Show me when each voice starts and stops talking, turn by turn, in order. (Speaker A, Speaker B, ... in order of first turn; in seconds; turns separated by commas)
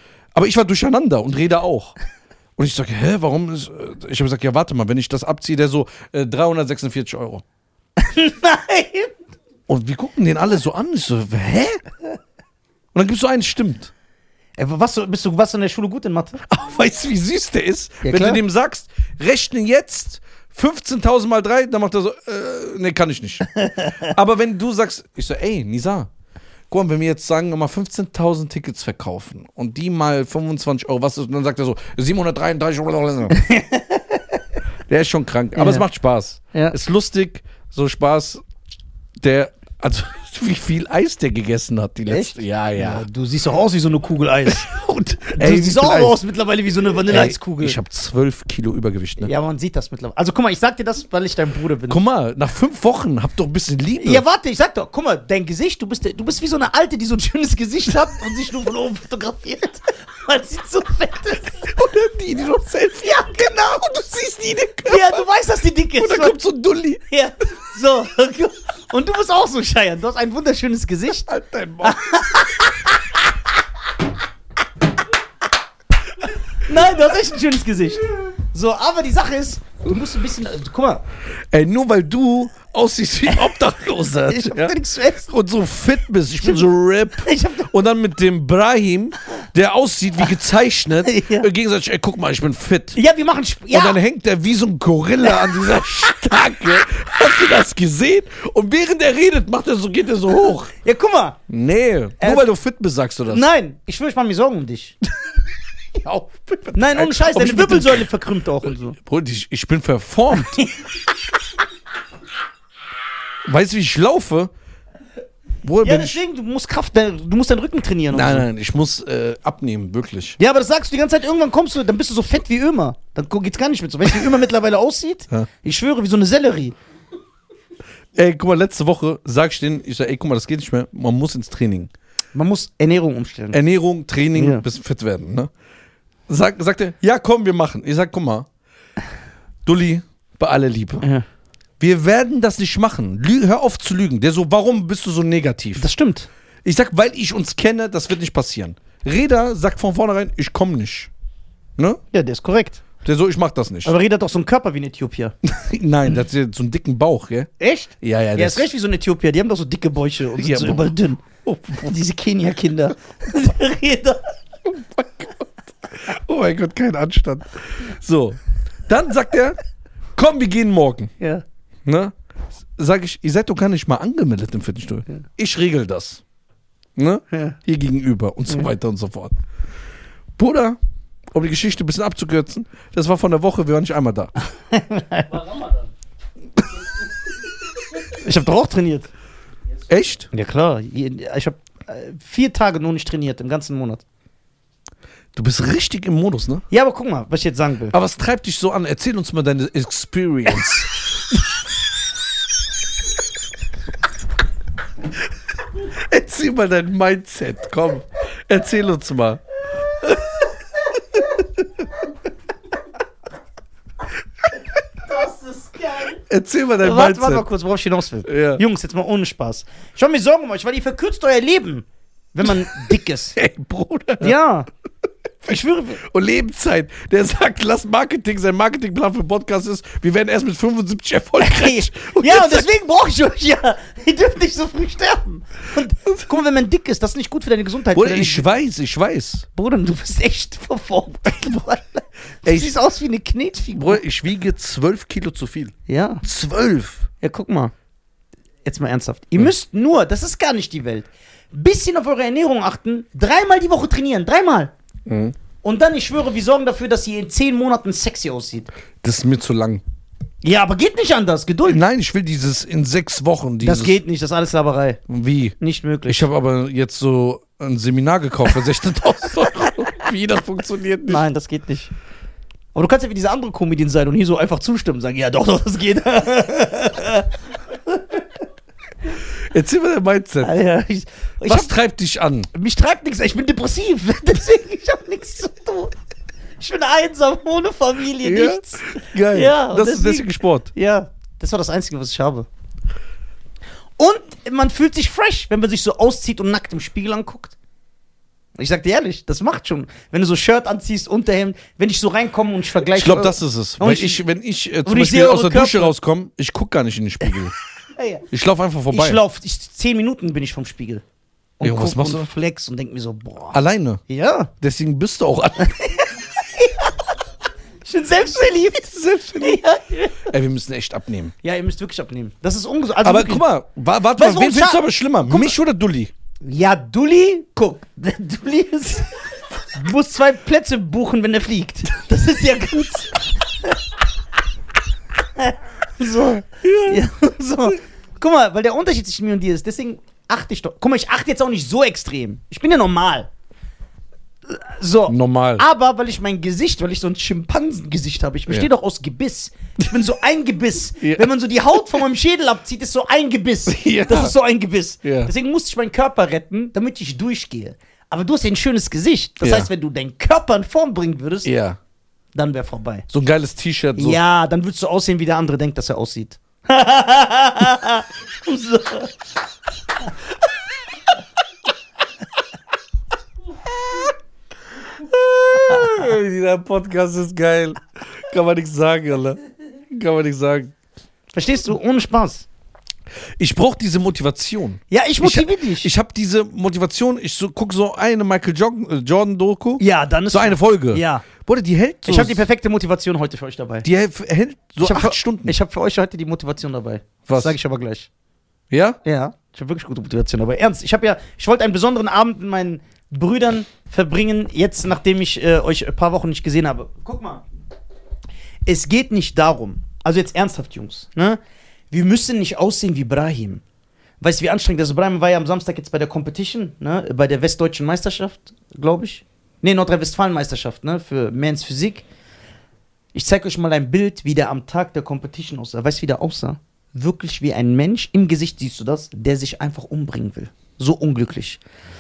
Speaker A: 0.3-1.9, Speaker A: 2.6-7.4, Speaker B: 8.0-9.1, Speaker A: 9.7-11.8, Speaker A: 12.9-13.9, Speaker B: 14.6-16.4, Speaker A: 16.5-23.5, Speaker B: 18.0-18.4, Speaker B: 23.6-23.9, Speaker A: 24.0-26.1, Speaker A: 26.7-33.4, Speaker B: 33.3-34.4, Speaker A: 34.9-38.4, Speaker B: 35.5-35.9, Speaker A: 39.2-43.1, Speaker B: 42.1-44.7, Speaker A: 44.5-46.2, Speaker B: 45.3-47.8, Speaker A: 47.1-49.3, Speaker B: 49.2-52.0, Speaker A: 51.9-54.2, Speaker B: 54.0-61.7, Speaker A: 61.6-65.2, Speaker B: 64.8-66.4, Speaker A: 66.0-67.0, Speaker B: 67.1-71.3, Speaker A: 71.3-72.0, Speaker B: 71.8-73.1, Speaker B: 76.6-81.0, Speaker A: 81.5-93.0, Speaker B: 84.2-85.3, Speaker B: 87.2-87.7, Speaker B: 91.0-91.5, Speaker B: 93.0-94.0, Speaker A: 93.7-100.7, Speaker B: 100.8-101.4, Speaker A: 101.5-103.5, Speaker B: 102.2-102.5, Speaker B: 103.3-105.0, Speaker A: 106.0-108.1, Speaker B: 106.7-109.0, Speaker A: 109.0-110.6, Speaker B: 110.3-110.9, Speaker A: 113.5-114.5, Speaker A: 115.6-116.2, Speaker B: 115.8-118.5, Speaker A: 118.1-120.4, Speaker B: 120.4-126.8, Speaker A: 128.2-131.9, Speaker B: 132.3-133.6, Speaker A: 133.5-135.5, Speaker B: 134.3-134.6, Speaker A: 136.3-138.5, Speaker A: 139.7-141.1, Speaker B: 141.0-141.3, Speaker A: 141.8-145.8, Speaker B: 145.8-146.3, Speaker A: 146.6-151.1, Speaker B: 152.1-152.8, Speaker A: 153.0-153.9, Speaker B: 153.8-155.3, Speaker A: 155.5-158.7, Speaker B: 157.6-161.2, Speaker A: 160.4-161.9, Speaker B: 161.8-164.4, Speaker A: 164.7-169.6, Speaker A: 170.2-171.1, Speaker B: 171.2-171.4, Speaker A: 171.9-172.2, Speaker A: 172.8-176.2, Speaker A: 177.0-179.4, Speaker B: 177.3-177.6, Speaker A: 180.4-180.8, Speaker A: 181.3-184.3, Speaker B: 184.7-185.3, Speaker C: 185.3-185.9, Speaker C: 186.6-188.2, Speaker B: 188.2-189.1, Speaker C: 189.7-189.9, Speaker A: 189.9-190.3, Speaker B: 190.3-194.0, Speaker A: 195.3-196.7, Speaker B: 196.7-198.0, Speaker A: 197.9-201.4, Speaker A: 205.8-209.4, Speaker A: 210.0-210.3, Speaker B: 215.1-216.2, Speaker A: 216.3-217.5, Speaker B: 216.8-223.4, Speaker A: 218.3-218.6, Speaker A: 222.4-224.3, Speaker B: 224.2-224.7, Speaker B: 225.4-226.0, Speaker A: 225.5-232.7, Speaker B: 231.4-238.5, Speaker A: 237.9-239.5, Speaker B: 239.6-244.0, Speaker A: 242.4-242.8, Speaker A: 243.7-247.1, Speaker B: 245.9-246.2, Speaker B: 247.2-247.7, Speaker B: 248.7-254.7, Speaker A: 255.1-255.4, Speaker B: 255.6-258.7, Speaker A: 259.0-259.8, Speaker B: 260.4-261.8, Speaker A: 261.7-264.0, Speaker B: 263.6-265.0, Speaker A: 265.1-265.6, Speaker B: 265.6-266.3, Speaker A: 266.1-271.2, Speaker B: 271.1-271.9, Speaker B: 272.7-277.3, Speaker B: 277.9-278.2, Speaker A: 279.4-280.6, Speaker B: 280.4-281.7, Speaker A: 281.4-282.5, Speaker B: 282.5-285.9, Speaker B: 286.6-292.5, Speaker A: 288.2-290.7, Speaker B: 294.0-297.6, Speaker B: 298.6-304.2, Speaker A: 302.9-307.5, Speaker B: 304.9-305.9, Speaker B: 307.9-308.3, Speaker A: 308.3-309.2, Speaker B: 308.9-311.0, Speaker B: 311.6-314.5, Speaker A: 311.6-312.3, Speaker A: 313.5-314.0, Speaker A: 314.6-315.8, Speaker B: 315.6-316.9, Speaker B: 317.9-320.3, Speaker A: 318.6-319.6, Speaker A: 320.2-321.3, Speaker B: 321.4-323.5, Speaker A: 323.0-326.1, Speaker B: 324.1-325.6, Speaker B: 326.4-333.8, Speaker B: 335.4-343.3, Speaker A: 336.6-337.0, Speaker B: 344.5-361.5, Speaker A: 345.1-345.6, Speaker A: 351.0-351.3, Speaker A: 353.7-354.3, Speaker A: 355.0-355.3, Speaker A: 359.4-359.7, Speaker A: 361.4-361.8, Speaker B: 362.4-363.1, Speaker A: 363.1-364.2, Speaker B: 364.0-369.1, Speaker A: 374.9-380.7, Speaker B: 381.3-382.5, Speaker A: 383.4-392.5, Speaker B: 384.9-385.9, Speaker B: 389.8-391.2, Speaker B: 392.1-393.9, Speaker A: 393.8-395.6, Speaker B: 394.8-398.1, Speaker A: 397.3-397.6, Speaker A: 398.7-399.0, Speaker B: 399.0-407.4, Speaker B: 408.6-411.4, Speaker B: 411.9-413.6, Speaker B: 414.2-422.1, Speaker B: 423.1-431.6